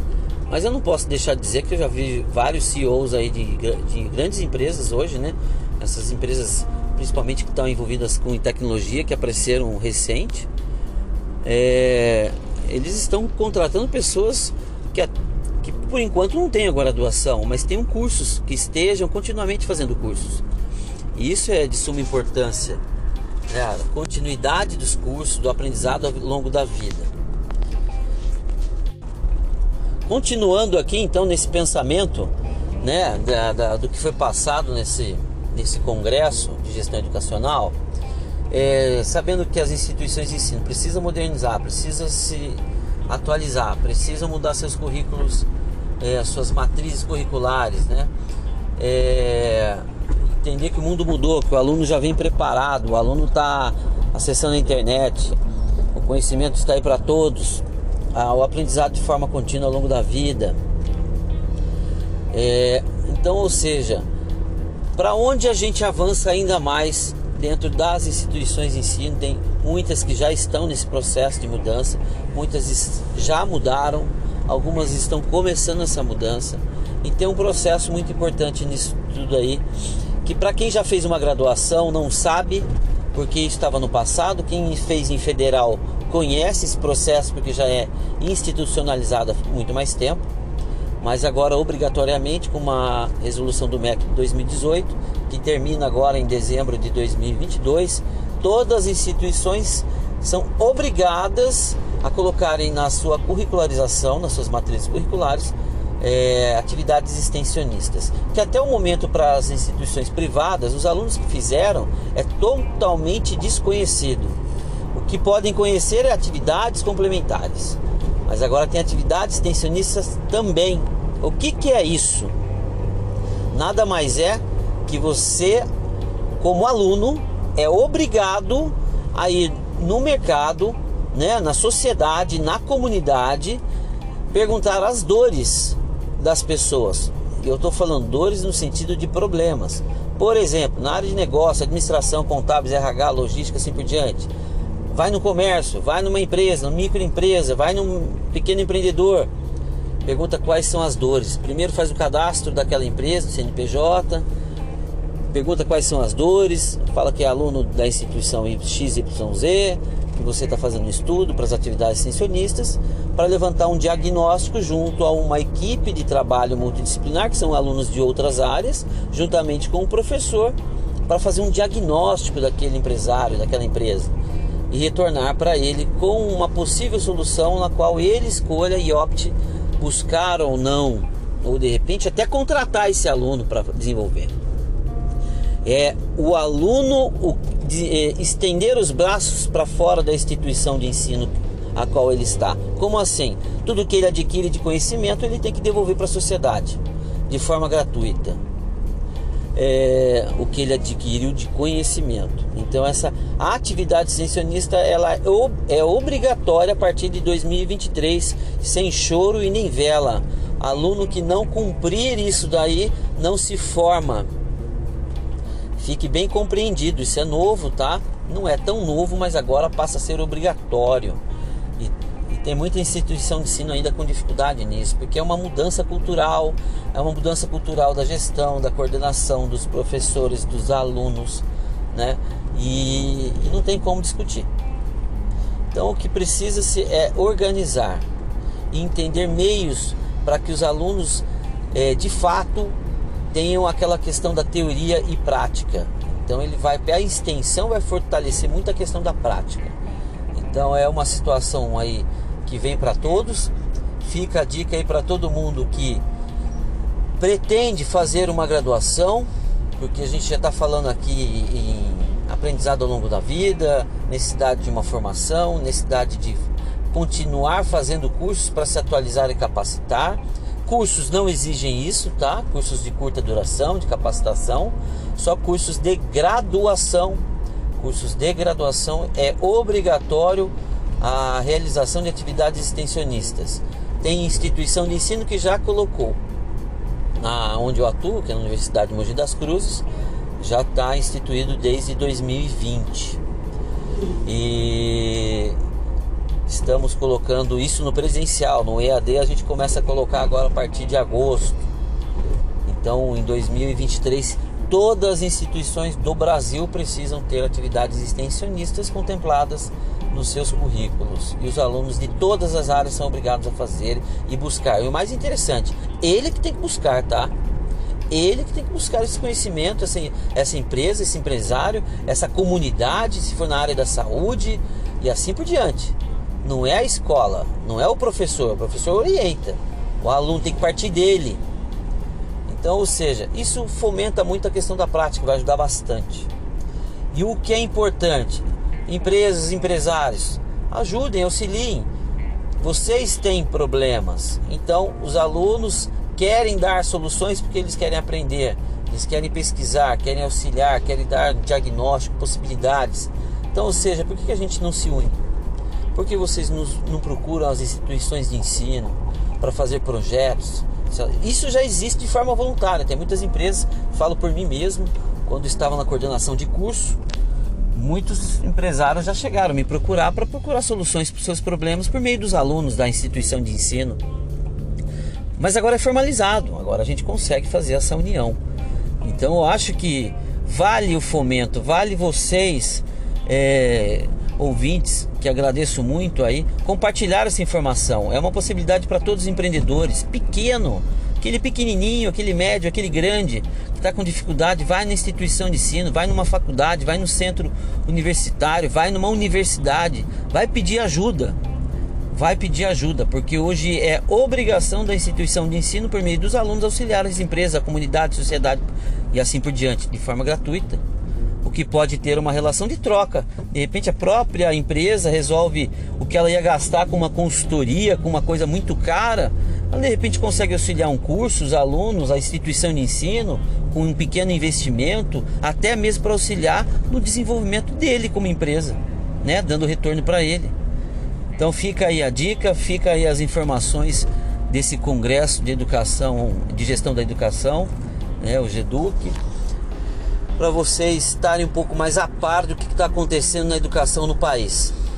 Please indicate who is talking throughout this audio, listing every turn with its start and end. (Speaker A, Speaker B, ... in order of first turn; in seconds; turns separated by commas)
Speaker A: 0.5-10.5, Speaker A: 11.4-20.4, Speaker A: 21.1-22.8, Speaker A: 23.5-27.1, Speaker A: 30.1-37.8, Speaker A: 38.5-45.5, Speaker A: 46.0-48.1, Speaker A: 48.8-55.4, Speaker A: 55.9-60.6, Speaker A: 62.3-64.1, Speaker A: 65.0-79.6, Speaker A: 80.2-90.2, Speaker A: 91.0-114.4, Speaker A: 114.9-122.3, Speaker A: 123.5-125.7, Speaker A: 126.4-133.6, Speaker A: 134.3-144.3, Speaker A: 144.9-149.3, Speaker A: 150.0-154.2, Speaker A: 155.3-170.6, Speaker A: 171.1-174.1, Speaker A: 174.7-184.3, Speaker A: 185.6-198.4, Speaker A: 199.6-214.3, Speaker A: 215.8-221.2, Speaker A: 221.8-234.5, Speaker A: 235.7-238.1, Speaker A: 238.7-242.8, Speaker A: 243.3-249.8, Speaker A: 250.3-256.0, Speaker A: 257.2-277.2, Speaker A: 277.8-286.2, Speaker A: 287.2-289.9, Speaker A: 290.4-293.2, Speaker A: 294.2-295.6, Speaker A: 296.5-301.6, Speaker A: 302.7-317.3, Speaker A: 318.1-331.4, Speaker A: 332.5-336.3, Speaker A: 337.1-341.9, Speaker A: 342.6-355.2, Speaker A: 355.9-367.0, Speaker A: 367.7-374.0, Speaker A: 375.4-378.4, Speaker A: 379.0-401.4, Speaker A: 402.1-410.8, Speaker A: 411.4-430.6, Speaker A: 431.4-439.2, Speaker A: 440.4-444.7